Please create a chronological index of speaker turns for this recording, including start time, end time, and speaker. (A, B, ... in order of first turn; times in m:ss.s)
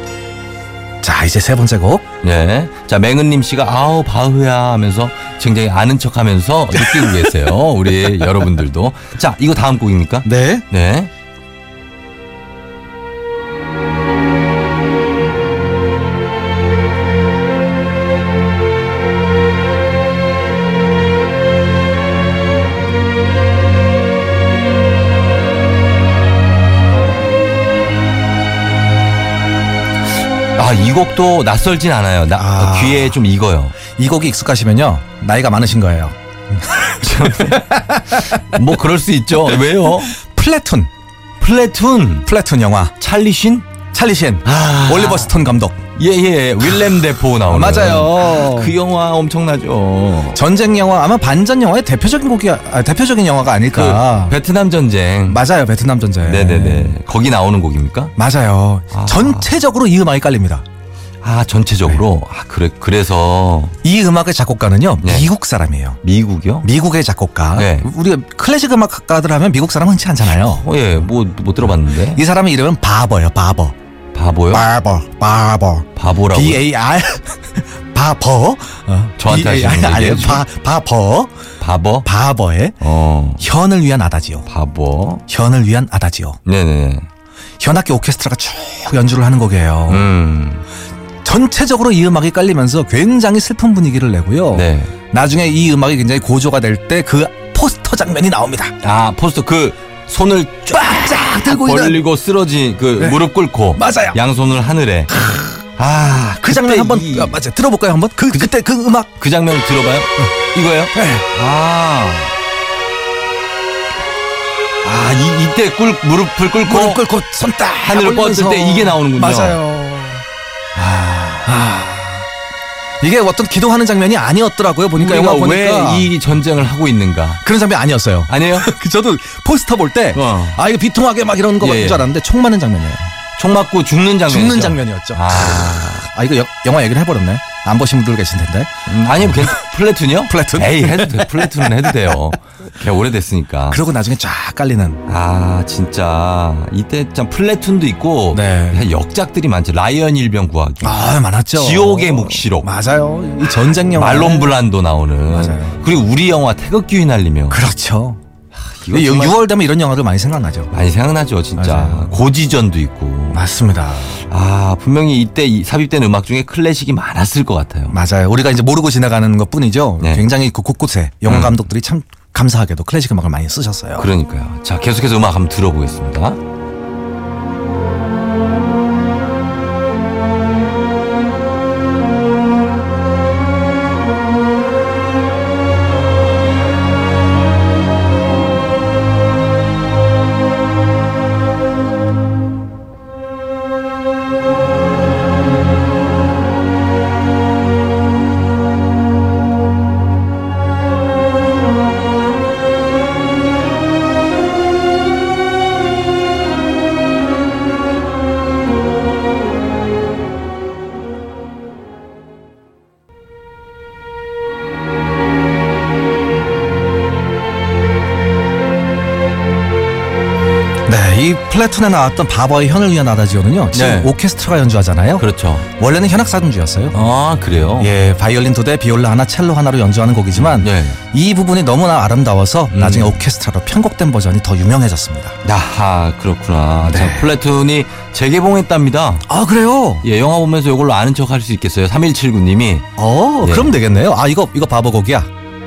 0:01.0-0:02.0 A
0:02.2-0:11.1 B
0:06.7-0:07.5 A
0:10.2-0:10.6 A
0:30.6-0:33.8 B
0:32.3-0:33.2 A
0:33.9-0:38.4 A
0:37.0-0:40.2 B
0:39.5-0:40.9 A
0:41.4-0:42.3 B
0:42.2-0:42.9 A
0:43.0-0:43.7 B
0:43.9-0:45.8 A
0:44.4-0:45.3 B
0:46.0-0:50.4 B
0:46.7-0:48.8 A
0:50.3-0:54.4 A
0:53.7-0:55.4 B
0:55.2-0:57.0 A
0:56.2-0:58.1 B
0:58.2-1:00.6 A
0:58.9-0:59.5 B
1:01.2-1:03.8 B
1:03.8-1:06.0 A
1:05.0-1:05.3 B
1:06.0-1:06.7 B
1:06.6-1:10.6 A
1:07.5-1:07.9 B
1:10.2-1:12.2 B
1:12.1-1:13.7 A
1:14.1-1:14.6 B
1:14.5-1:21.3 A
1:15.9-1:16.6 B
1:19.2-1:20.5 B
1:21.6-1:22.1 B
1:22.0-1:22.8 A
1:22.8-1:23.4 B
1:23.4-1:24.4 A
1:24.4-1:25.2 B
1:25.3-1:26.4 A
1:26.4-1:27.1 B
1:27.6-1:30.1 A
1:29.9-1:30.6 B
1:31.2-1:38.7 A
1:34.5-1:34.9 B
1:38.8-1:45.1 B
1:40.7-1:42.0 A
1:43.8-1:44.2 A
1:45.1-1:45.5 A
1:45.8-1:47.4 B
1:46.4-1:49.1 A
1:49.2-1:52.3 B
1:50.9-1:51.2 A
1:54.8-1:57.0 B
1:56.6-2:00.2 A
1:57.8-1:59.6 B
2:00.8-2:01.5 B
2:01.4-2:02.3 A
2:03.0-2:06.1 A
2:05.0-2:07.4 B
2:07.4-2:13.1 A
2:08.3-2:08.7 B
2:10.1-2:10.6 B
2:11.6-2:12.1 B
2:13.4-2:16.0 B
2:14.3-2:19.6 A
2:18.9-2:23.8 B
2:20.3-2:22.1 A
2:23.7-2:25.0 A
2:25.0-2:31.0 B
2:28.3-2:28.8 A
2:30.8-2:34.6 A
2:31.5-2:32.7 B
2:33.9-2:37.6 B
2:35.3-2:35.8 A
2:37.5-2:38.2 A
2:38.6-2:39.4 B
2:38.9-2:40.7 A
2:40.7-2:43.4 B
2:41.6-2:42.2 A
2:43.3-2:44.2 A
2:44.3-2:48.0 B
2:47.9-2:54.1 A
2:50.0-2:50.2 B
2:51.2-2:51.6 B
2:54.0-2:56.4 B
3:40.9-3:45.3 A
3:43.7-3:44.1 B
3:45.2-3:45.7 B
3:45.8-3:47.0 A
3:46.9-3:47.9 B
3:47.8-3:55.4 A
3:50.3-3:51.0 B
3:52.7-3:53.2 B
3:55.4-3:59.2 B
3:56.8-3:57.3 A
3:59.3-4:00.0 A
4:00.0-4:02.9 B
4:03.0-4:05.3 A
4:03.4-4:03.7 B